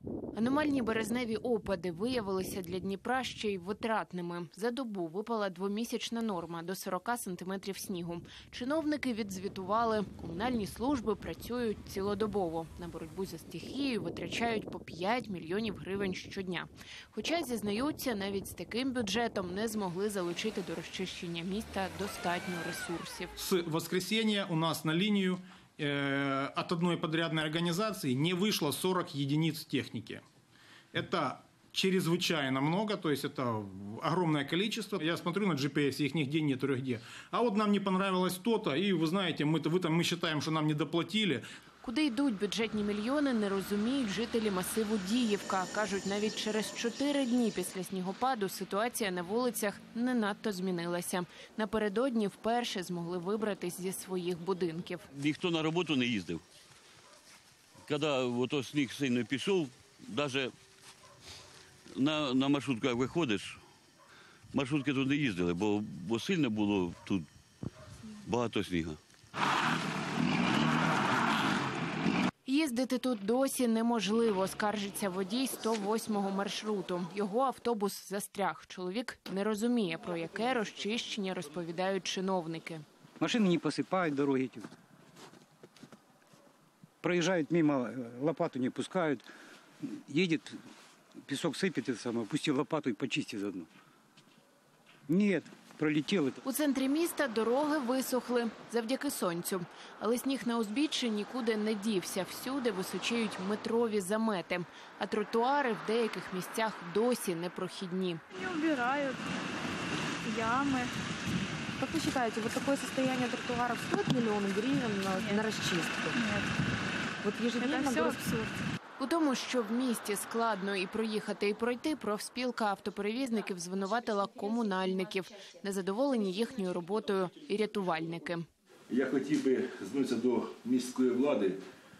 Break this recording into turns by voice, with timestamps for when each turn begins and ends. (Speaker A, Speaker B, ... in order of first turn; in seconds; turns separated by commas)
Speaker A: 0.3-23.3, Speaker B: 23.4-30.2, Speaker B: 30.9-41.4, Speaker A: 41.8-55.0, Speaker C: 55.1-56.4, Speaker C: 57.8-60.5, Speaker C: 61.9-63.6, Speaker C: 64.5-67.2, Speaker C: 68.2-69.0, Speaker A: 72.4-82.8, Speaker D: 83.2-84.7, Speaker D: 87.0-89.3, Speaker D: 89.8-90.6, Speaker D: 91.2-93.7, Speaker D: 95.1-96.4, Speaker A: 96.4-108.2, Speaker E: 108.3-109.2, Speaker E: 110.2-110.9, Speaker F: 111.8-116.2, Speaker E: 115.1-116.5, Speaker F: 117.2-118.2, Speaker E: 117.6-118.6, Speaker A: 119.0-128.4, Speaker G: 128.9-131.6